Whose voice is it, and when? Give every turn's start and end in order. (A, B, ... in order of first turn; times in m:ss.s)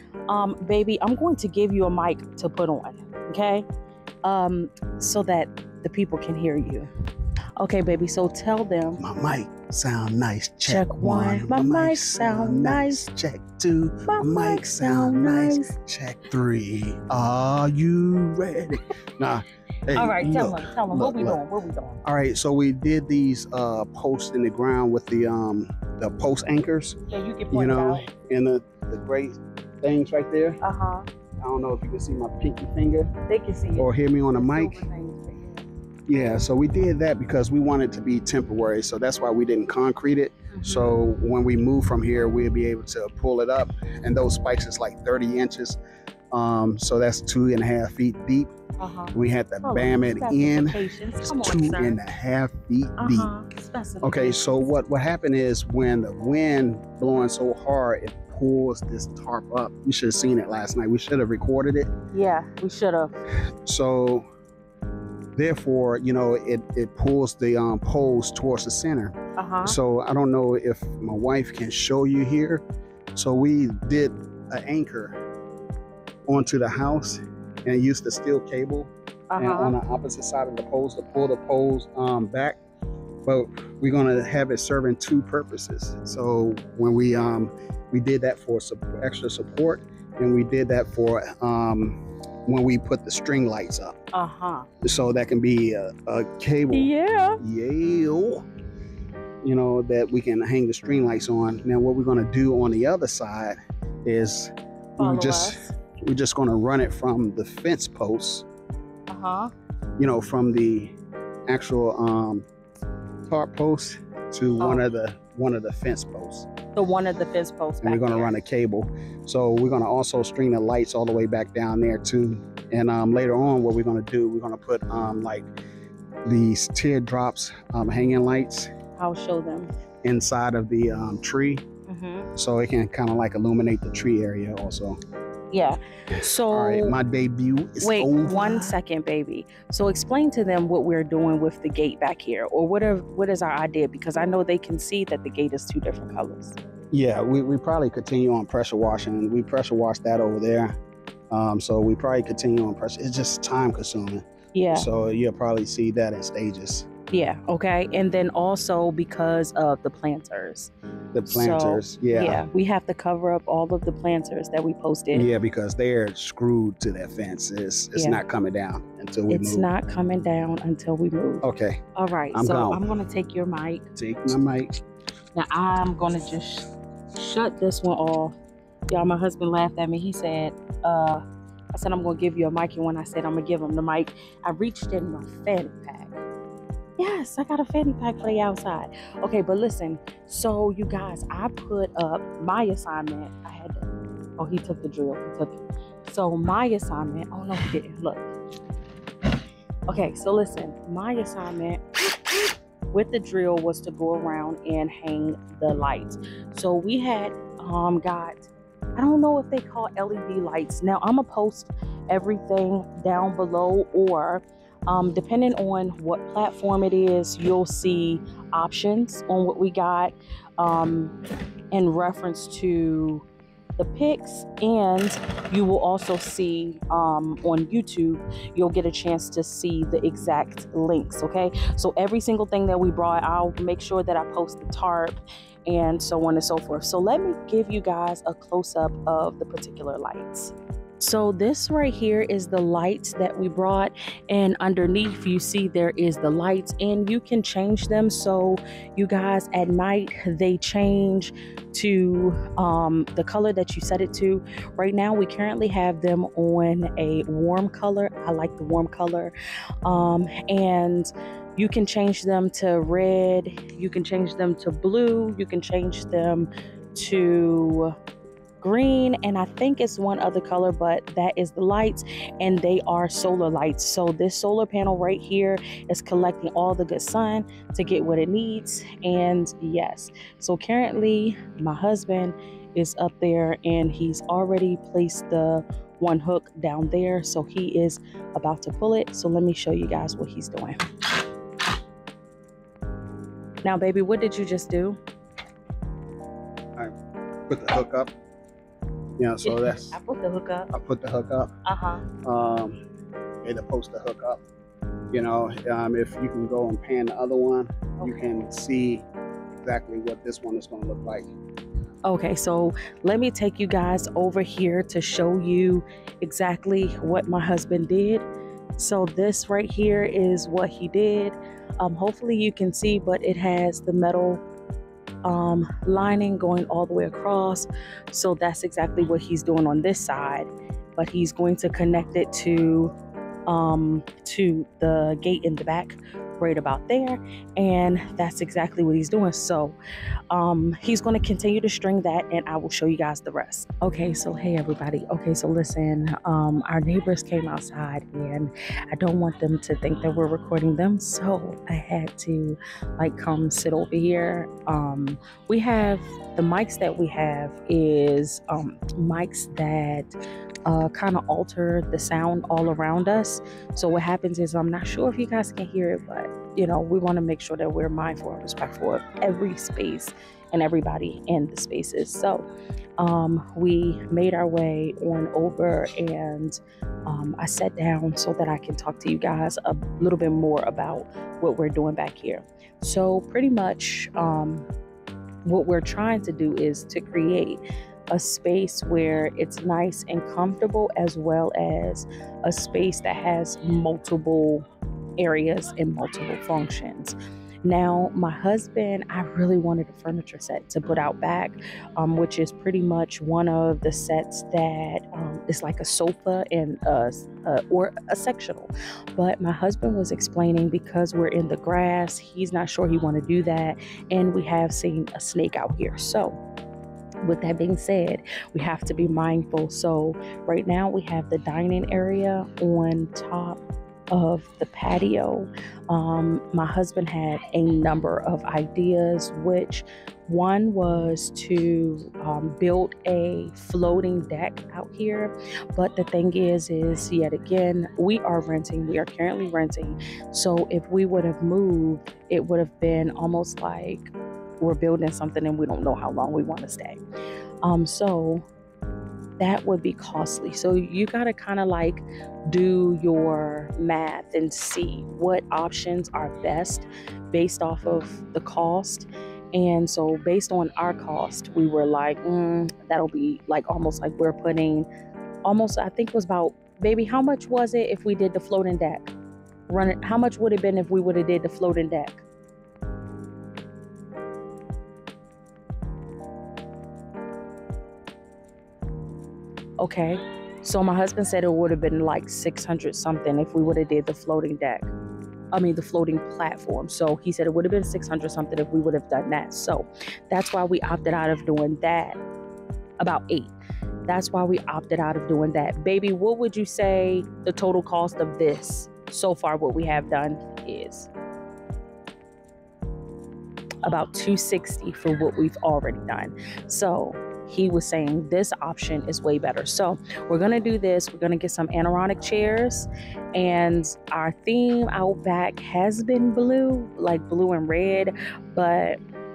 0:00.3-0:03.6 A
0:04.2-0:06.9 A
0:07.6-0:09.0 A
0:09.0-0:21.4 B
0:10.6-0:13.0 A
0:14.1-0:15.7 A
0:19.9-0:22.0 A
0:22.0-0:27.0 B
0:27.1-0:28.0 A
0:27.5-0:30.6 B
0:30.6-0:31.0 A
0:31.4-0:33.1 B
0:33.3-0:35.6 A
0:33.8-0:34.8 B
0:36.1-0:45.8 B
0:40.5-0:41.0 A
0:46.3-0:48.5 B
0:48.8-0:52.0 A
0:49.1-0:53.3 B
0:53.0-0:54.7 A
0:54.0-1:01.9 B
1:02.1-1:03.1 A
1:03.6-1:04.2 B
1:05.3-1:12.6 B
1:09.4-1:09.8 A
1:13.1-1:15.1 B
1:16.3-1:22.6 B
1:19.3-1:19.8 A
1:23.2-1:32.0 B
1:32.5-1:33.9 B
1:34.1-1:34.7 A
1:34.8-1:38.4 B
1:36.7-1:37.4 A
1:39.4-1:48.4 B
1:45.0-1:45.7 A
1:49.1-1:49.5 A
1:50.0-1:50.9 B
1:51.5-1:52.4 B
1:53.3-1:56.5 B
1:54.6-1:54.8 A
1:56.8-1:58.3 A
1:57.8-2:05.5 B
2:06.2-2:08.7 B
2:09.0-2:09.7 A
2:10.0-2:11.6 B
2:11.9-2:12.3 A
2:12.4-2:15.0 B
2:15.5-2:17.0 A
2:16.5-2:18.8 B
2:17.8-2:26.6 A
2:26.9-2:30.8 B
2:31.3-2:36.9 B
2:34.5-2:34.9 A
2:37.1-2:40.7 A
2:41.1-2:42.4 B
2:41.2-2:45.3 A
2:45.1-2:49.7 B
2:47.9-2:48.2 A
2:49.3-2:51.4 A
2:51.4-2:51.8 B
2:52.0-2:53.8 A
2:52.3-2:52.8 B
2:54.0-2:54.8 B
2:55.3-2:58.3 A
2:58.9-3:06.2 A
3:07.0-3:13.9 A
3:14.4-3:18.2 A
3:19.9-3:41.1 A
3:41.7-3:43.2 A
3:43.8-4:19.3 A
4:19.8-4:27.9 A
4:28.6-4:50.8 A
4:53.6-4:55.0 A
4:57.5-4:58.1 B
4:59.2-5:00.0 B
4:59.4-5:00.7 A
5:00.7-5:01.5 B
5:01.6-5:02.0 A
5:02.2-5:02.8 B
5:03.4-5:04.4 B
5:05.1-5:09.0 B
5:08.0-5:08.3 A
5:09.6-5:11.3 B
5:12.0-5:18.2 A
5:18.8-5:24.4 A
5:25.2-5:32.9 A
5:33.5-5:39.8 A
5:40.3-6:00.1 A
6:00.6-6:12.4 A
6:13.0-6:24.6 A
6:25.4-6:34.6 A
6:35.2-6:56.4 A
6:57.2-7:27.0 A
7:27.6-7:28.4 A
7:29.4-7:44.9 A
7:45.4-7:49.1 A
7:49.7-7:52.2 A
7:59.8-8:04.9 A
8:05.5-8:12.2 A
8:13.0-8:13.5 A
8:14.1-8:21.1 A
8:23.8-8:39.0 A